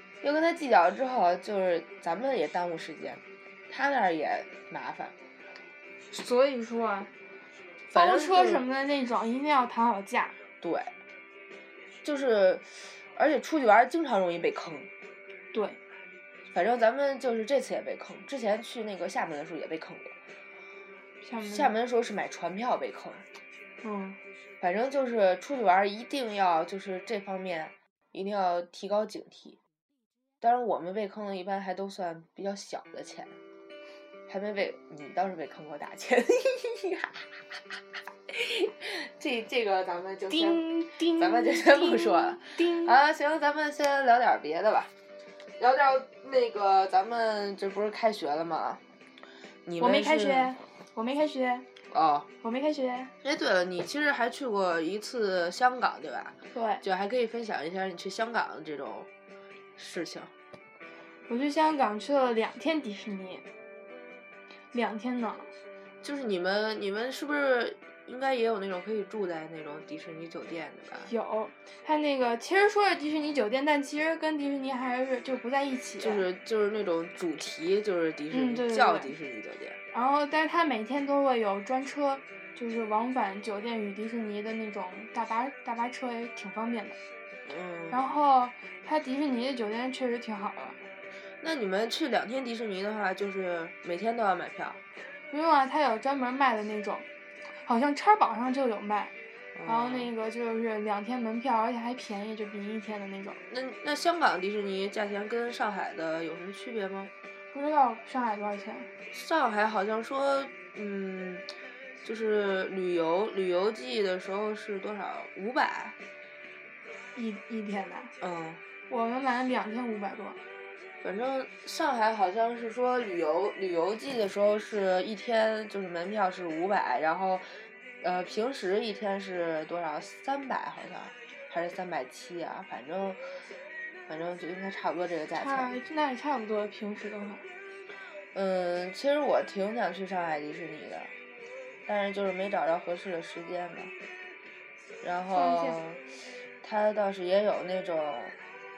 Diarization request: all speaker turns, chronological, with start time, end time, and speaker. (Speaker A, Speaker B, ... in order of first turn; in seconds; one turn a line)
Speaker A: 0.2-5.1
Speaker B: 6.1-7.1
Speaker A: 7.9-8.6
Speaker B: 7.9-10.3
Speaker A: 10.6-10.9
Speaker A: 12.0-14.9
Speaker B: 15.5-15.8
Speaker A: 16.5-20.1
Speaker B: 21.2-21.7
Speaker A: 21.4-23.2
Speaker B: 23.8-24.2
Speaker A: 24.6-29.6
Speaker A: 30.4-33.4
Speaker A: 34.3-37.5
Speaker A: 38.3-44.9
Speaker B: 40.3-42.9
Speaker A: 45.6-48.8
Speaker A: 49.6-50.5
Speaker B: 49.8-51.7
Speaker A: 51.9-52.3
Speaker B: 52.4-53.1
Speaker A: 53.2-59.1
Speaker B: 56.5-56.8
Speaker A: 59.8-60.3
Speaker B: 61.3-63.4
Speaker B: 64.7-65.5
Speaker A: 66.0-71.1
Speaker B: 71.0-76.2
Speaker A: 76.0-79.8
Speaker B: 78.3-79.1
Speaker B: 79.9-87.0
Speaker A: 87.5-88.0
Speaker B: 87.9-90.8
Speaker A: 91.4-94.8
Speaker B: 95.3-99.1
Speaker A: 99.5-100.1
Speaker B: 99.6-103.4
Speaker A: 103.5-107.1
Speaker B: 107.5-108.9
Speaker A: 109.1-111.5
Speaker A: 112.0-116.0
Speaker B: 117.1-118.1
Speaker A: 118.2-118.6
Speaker B: 118.9-120.4
Speaker A: 121.0-127.5
Speaker A: 128.0-133.2
Speaker A: 134.1-135.7
Speaker B: 135.3-137.4
Speaker A: 138.3-141.1
Speaker A: 141.9-143.9
Speaker A: 145.0-146.0
Speaker B: 145.3-145.8
Speaker A: 146.6-148.3